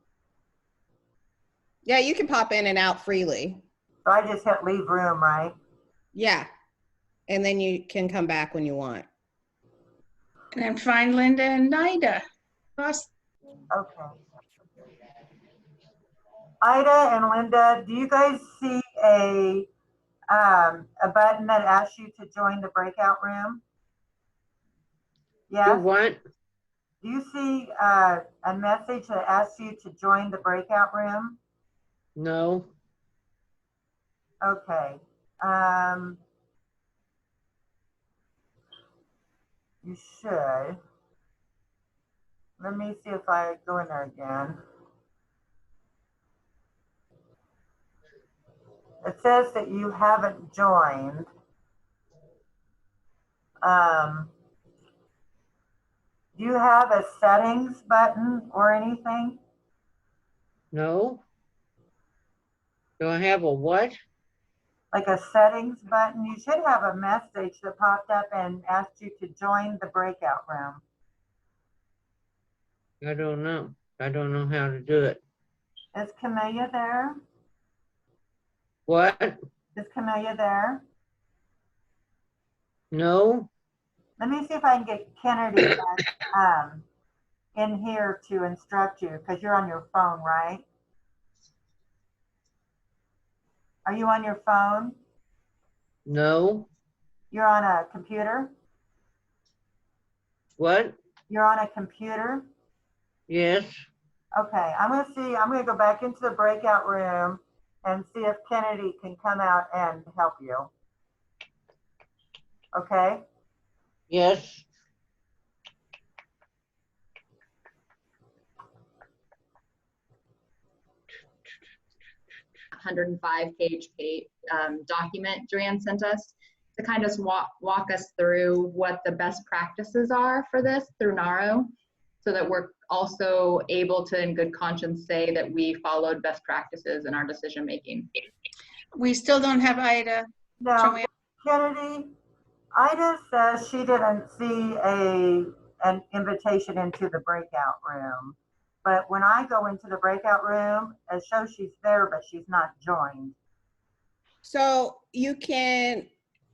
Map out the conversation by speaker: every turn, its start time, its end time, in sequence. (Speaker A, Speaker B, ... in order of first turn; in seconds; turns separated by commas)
Speaker A: 1.9-3.6, Speaker B: 4.0-5.6, Speaker A: 6.1-6.5, Speaker A: 7.3-9.1, Speaker C: 10.6-12.2, Speaker C: 12.8-13.1, Speaker B: 13.7-14.2, Speaker B: 16.6-19.7, Speaker B: 20.3-23.6, Speaker B: 25.5-25.9, Speaker D: 25.6-26.2, Speaker B: 27.0-31.4, Speaker D: 32.2-32.7, Speaker B: 34.4-36.2, Speaker B: 39.8-40.8, Speaker B: 42.6-44.6, Speaker B: 49.0-51.3, Speaker B: 53.6-54.3, Speaker B: 56.4-59.4, Speaker D: 60.7-61.2, Speaker D: 63.0-64.0, Speaker B: 64.9-70.8, Speaker D: 73.0-75.2, Speaker B: 75.9-77.2, Speaker D: 78.9-79.4, Speaker B: 79.8-80.8, Speaker D: 82.9-83.5, Speaker B: 84.2-86.8, Speaker B: 87.5-90.7, Speaker B: 93.8-95.0, Speaker D: 96.1-96.7, Speaker B: 97.3-98.5, Speaker D: 100.6-101.0, Speaker B: 101.3-102.5, Speaker D: 103.3-103.9, Speaker B: 104.3-110.7, Speaker B: 112.7-113.2, Speaker D: 114.1-114.7, Speaker E: 122.7-131.7, Speaker E: 132.2-138.1, Speaker C: 138.9-141.1, Speaker B: 140.6-142.1, Speaker B: 142.7-153.4, Speaker A: 154.4-156.1